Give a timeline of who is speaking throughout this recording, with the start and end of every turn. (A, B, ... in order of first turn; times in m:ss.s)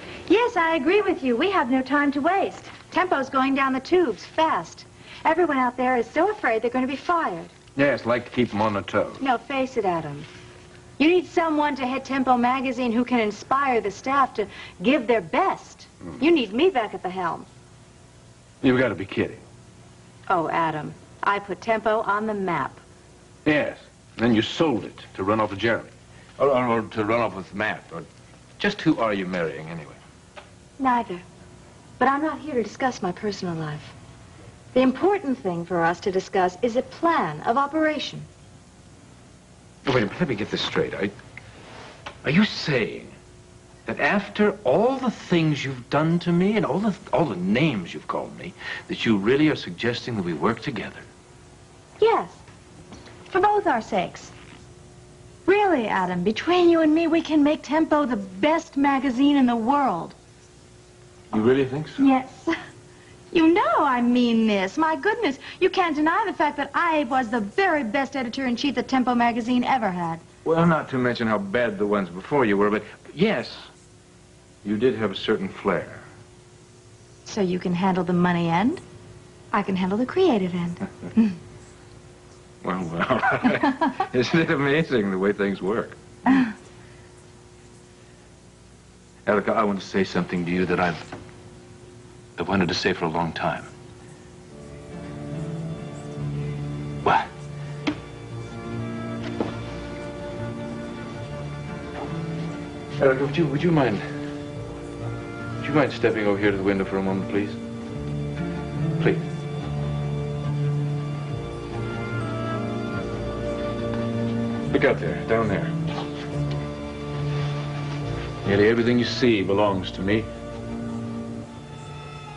0:00.3-0:07.5 A
0:07.8-0:09.2 B
0:09.2-0:10.3 A
0:11.0-0:17.5 A
0:18.6-0:19.4 B
0:20.3-0:22.8 A
0:23.4-0:28.1 B
0:28.6-0:30.0 B
0:30.8-0:31.2 A
0:32.0-0:33.9 A
0:34.7-0:38.3 A
0:39.8-0:41.1 B
0:42.2-0:43.1 B
0:43.8-0:51.0 B
0:52.0-0:52.4 A
0:53.3-0:54.3 A
0:55.4-1:00.2 A
1:01.3-1:02.1 B
1:02.0-1:02.5 A
1:03.3-1:10.2 A
1:10.4-1:13.7 B
1:14.6-1:16.0 B
1:17.2-1:18.8 A
1:19.5-1:21.4 A
1:22.6-1:26.4 B
1:29.2-1:31.0 B
1:32.4-1:33.7 B
1:37.0-1:37.3 B
1:43.0-1:44.0 B
1:45.6-1:47.6 B
1:49.0-1:49.2 B
1:54.7-1:55.7 B
1:58.4-2:00.3 B